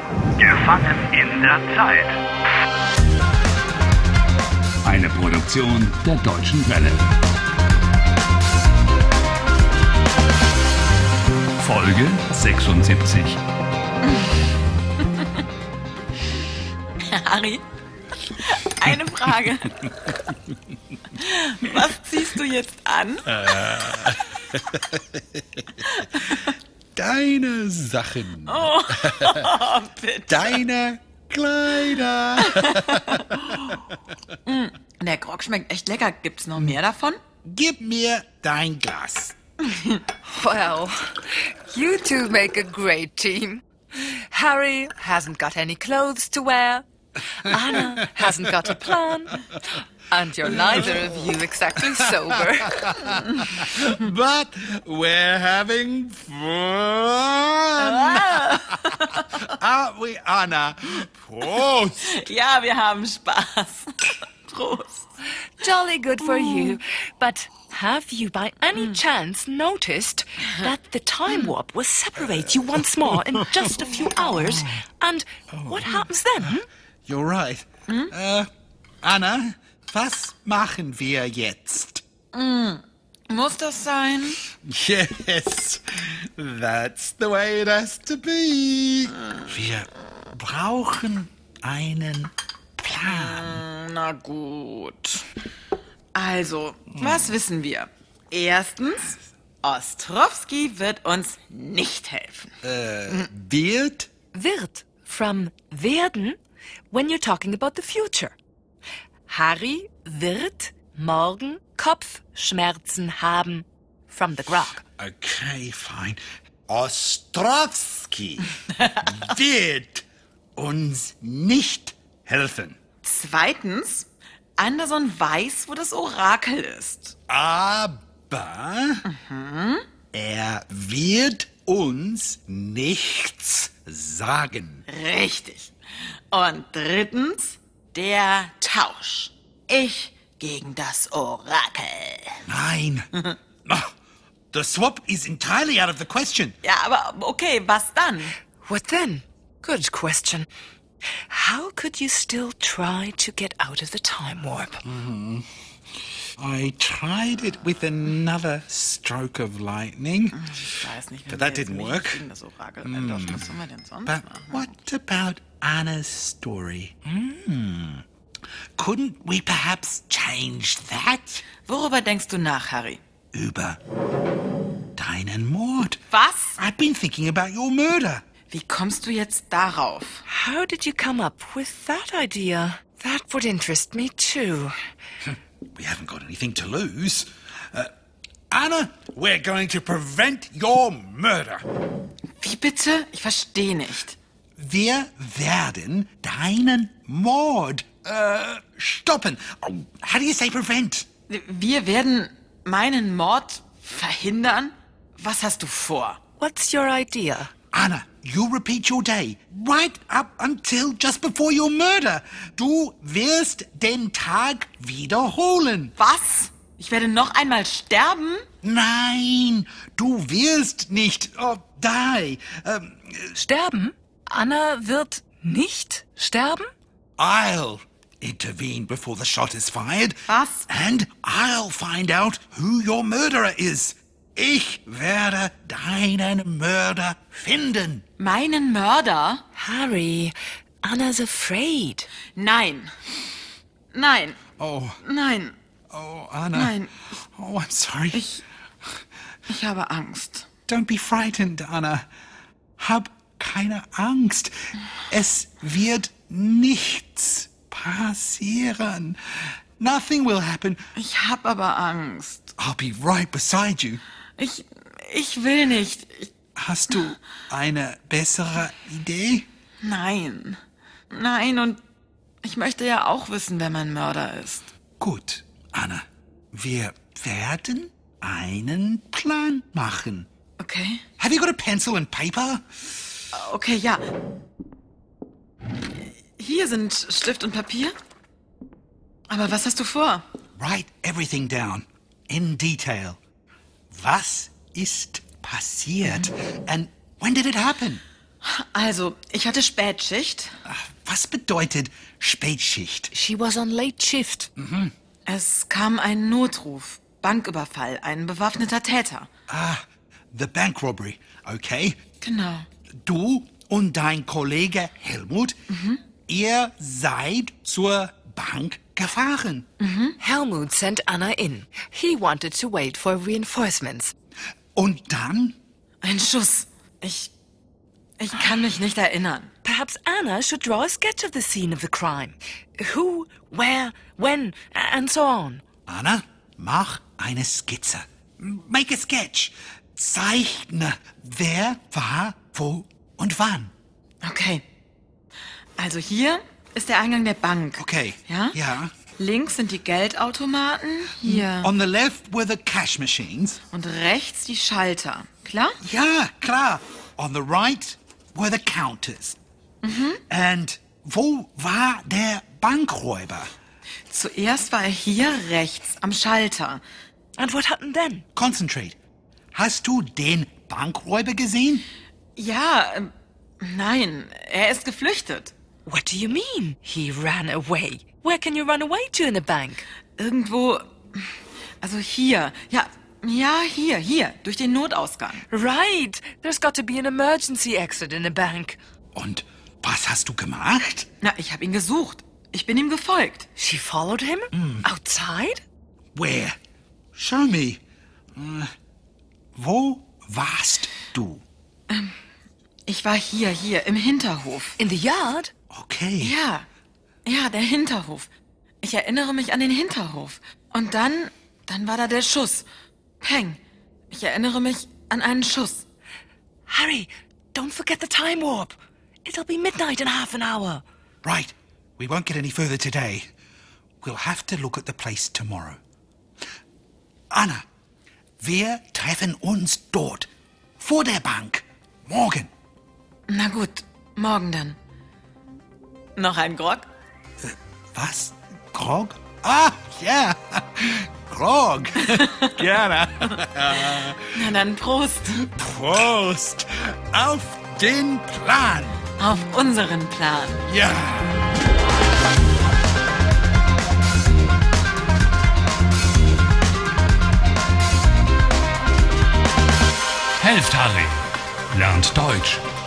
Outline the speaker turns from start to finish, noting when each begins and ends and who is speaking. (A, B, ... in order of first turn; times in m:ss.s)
0:00.4-0:02.2 A
0:04.8-0:07.1 A
0:11.6-0:13.4 A
0:14.0-0:15.4 B
0:17.0-0:17.6 B
0:18.3-0:19.9 B
0:21.1-0:23.4 B
0:23.3-0:26.0 C
0:25.8-0:26.5 B
0:27.0-0:29.6 C
0:28.5-0:30.6 B
0:30.3-0:33.8 C
0:32.4-0:33.7 B
0:34.5-0:37.2 B
0:37.4-0:39.4 C
0:39.6-0:40.1 B
0:40.2-0:46.8 D
0:47.4-0:49.4 D
0:47.5-0:48.7 C
0:50.1-0:53.0 D
0:50.5-0:51.0 C
0:51.8-1:02.2 C
0:53.1-0:53.5 B
0:57.8-0:59.2 B
1:02.0-1:05.1 B
1:05.6-1:16.7 D
1:06.4-1:06.8 B
1:13.1-1:13.8 C
1:14.4-1:14.8 C
1:15.5-1:16.5 C
1:17.1-1:18.5 C
1:17.9-1:18.1 B
1:19.0-1:22.0 C
1:22.3-1:24.4 B
1:24.5-1:33.6 C
1:33.0-1:35.3 B
1:36.2-1:43.3 B
1:42.6-1:44.1 C
1:44.3-1:46.4 D
1:46.9-1:48.4 D
1:49.3-1:54.8 D
1:55.0-2:02.8 C
2:03.0-2:07.2 B
2:07.3-2:09.0 C
2:09.0-2:09.9 B
2:10.1-2:14.8 C
2:14.9-2:22.5 B
2:22.5-2:23.1 C
2:23.6-2:23.9 C
2:24.5-2:26.6 C
2:26.6-2:28.4 B
2:28.6-2:30.5 D
2:31.3-2:34.8 D
2:34.8-2:35.5 C
2:36.4-2:40.5 C
2:40.3-2:44.7 B
2:41.3-2:42.2 C
2:42.9-2:43.5 C
2:44.1-2:48.0 C
2:48.8-2:51.4 C
2:51.6-2:53.0 B
2:53.3-2:53.8 C
2:55.0-2:56.0 C
2:56.1-2:56.6 B
2:56.6-2:58.2 C
2:58.5-3:00.2 B
3:00.3-3:04.8 D
3:05.3-3:07.9 C
3:08.5-3:11.6 C
3:12.4-3:14.2 B
3:14.6-3:21.1 C
3:21.3-3:26.2 B
3:26.4-3:27.5 D
3:27.7-3:35.9 C
3:36.0-3:38.5 B
3:38.6-3:43.4 C
3:43.4-3:46.7 D
3:47.2-3:58.0 C
3:50.3-3:50.7 B
3:58.2-3:59.4 B
3:59.6-4:02.1 D
4:02.4-4:02.9 B
4:03.9-4:04.4 B
4:04.6-4:05.0 C
4:05.0-4:05.6 B
4:05.9-4:08.3 C
4:06.5-4:07.0 B
4:08.1-4:08.4 B
4:09.5-4:10.5 B
4:10.7-4:12.1 C
4:12.8-4:20.8 C
4:21.0-4:22.5 B
4:22.6-4:24.0 C
4:24.4-4:26.3 B
4:26.6-4:29.5 C
4:29.8-4:30.6 B
4:31.1-4:31.8 B
4:32.4-4:34.7 B
4:35.0-4:40.3 C
4:40.6-4:41.0 B
4:41.2-4:42.7 C
4:43.3-4:44.0 B
4:45.9-4:48.0 B
4:49.3-4:50.2 B
4:50.6-4:53.2 C
4:53.9-4:58.0 C
4:56.0-4:56.3 B
4:58.4-5:00.5 B
5:00.7-5:03.1 C
5:03.1-5:04.5 D
5:04.6-5:04.9 C
5:05.3-5:09.3 B
5:09.5-5:12.0 C
5:12.2-5:12.7 B
5:13.0-5:15.6 C
5:15.7-5:16.0 B
5:16.3-5:19.7 C
5:19.8-5:20.2 B
5:20.2-5:24.1 D
5:24.8-5:25.6 C
5:26.0-5:27.3 B
5:28.2-5:29.5 B
5:29.6-5:35.6 D
5:35.9-5:43.7 C
5:44.2-5:44.7 B
5:45.8-5:48.6 B
5:47.8-5:48.9 C
5:49.2-5:51.7 B
5:51.3-5:53.6 C
5:53.7-5:55.8 B
5:55.8-5:59.4 C
5:59.8-6:00.2 B
6:00.3-6:03.5 C
6:04.1-6:06.8 B
6:07.4-6:08.2 D
6:08.4-6:09.0 C
6:09.5-6:11.9 C
6:12.4-6:13.1 B
6:13.6-6:15.5 B
6:15.9-6:19.8 D
6:20.2-6:21.2 B
6:21.8-6:25.4 B
6:25.5-6:28.8 D
6:29.2-6:31.1 C
6:31.2-6:33.5 B
6:33.6-6:35.6 D
6:34.5-6:34.9 C
6:36.2-6:36.6 C
6:37.1-6:37.8 C
6:38.4-6:38.7 C
6:39.6-6:41.4 C
6:41.9-6:42.2 B
6:42.9-6:44.8 B
6:44.8-6:45.5 D
6:45.7-6:46.4 C
6:46.2-6:46.7 B
6:47.2-6:48.3 B
6:48.8-6:52.7 B
6:53.2-6:53.6 B
6:54.1-6:55.8 B
6:56.7-7:00.8 D
7:01.2-7:03.3 C
7:04.0-7:05.8 C
7:07.3-7:07.6 C
7:08.4-7:12.5 C
7:13.3-7:14.8 B
7:16.2-7:16.9 B
7:17.4-7:24.5 C
7:22.0-7:22.6 B
7:23.6-7:25.5 B
7:25.3-7:29.0 C
7:29.2-7:30.6 B
7:30.7-7:31.4 C
7:40.4-7:42.6 A